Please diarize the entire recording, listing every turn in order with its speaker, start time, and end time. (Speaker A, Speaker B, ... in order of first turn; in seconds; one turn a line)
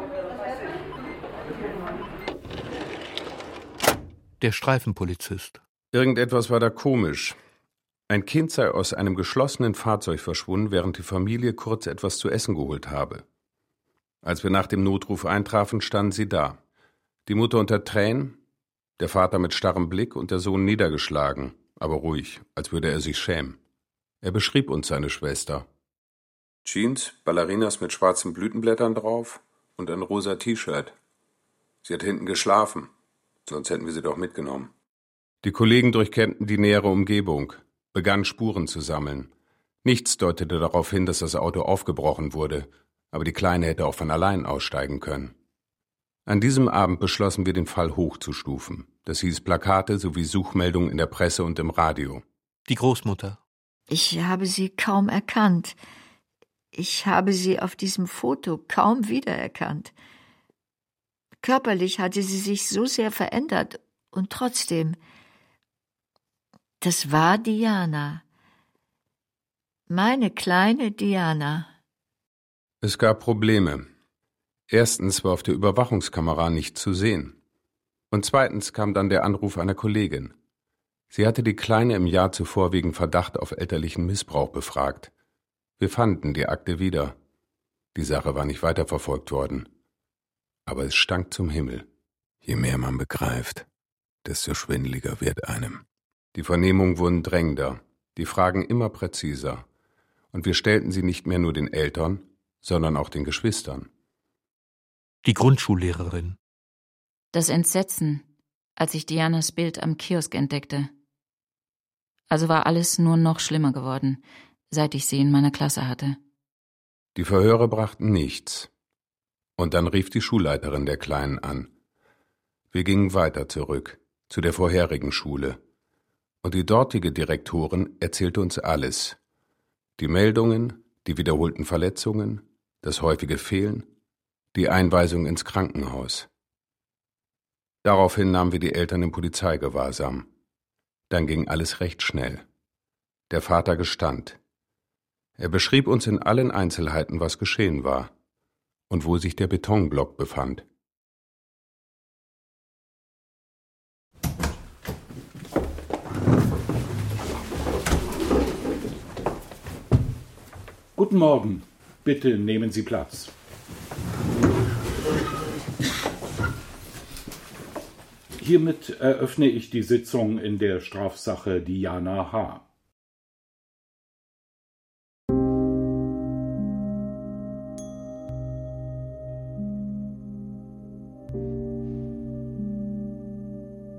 Speaker A: 4.4-5.6
Speaker B: 5.9-7.3
Speaker B: 8.1-13.2
Speaker B: 14.2-16.6
Speaker B: 17.2-18.4
Speaker B: 19.0-23.6
Speaker B: 24.2-25.6
Speaker B: 26.6-30.9
Speaker B: 31.8-32.9
Speaker B: 33.5-34.7
Speaker B: 35.4-39.3
Speaker B: 39.8-45.3
Speaker B: 46.3-52.2
Speaker A: 52.7-53.4
Speaker C: 53.9-55.7
Speaker C: 56.7-59.9
Speaker C: 61.4-65.0
Speaker C: 66.8-68.2
Speaker C: 69.9-71.7
Speaker B: 72.8-73.9
Speaker B: 74.7-77.3
Speaker B: 78.1-80.3
Speaker B: 81.1-85.1
Speaker B: 85.8-87.1
Speaker B: 87.9-89.7
Speaker B: 90.7-91.8
Speaker B: 92.5-93.6
Speaker B: 94.3-95.5
Speaker B: 96.3-99.6
Speaker B: 100.3-103.9
Speaker A: 105.2-106.4
Speaker D: 107.3-108.2
Speaker D: 108.8-110.9
Speaker D: 112.3-116.2
Speaker B: 117.1-118.7
Speaker B: 119.6-121.7
Speaker B: 122.7-125.6
Speaker B: 126.4-129.2
Speaker B: 130.0-133.8
Speaker B: 134.5-136.3
Speaker B: 137.8-140.2
Speaker B: 141.1-142.4
Speaker B: 143.3-144.4
Speaker B: 145.4-148.1
Speaker B: 148.9-150.6
Speaker E: 160.9-163.3
Speaker E: 168.4-172.6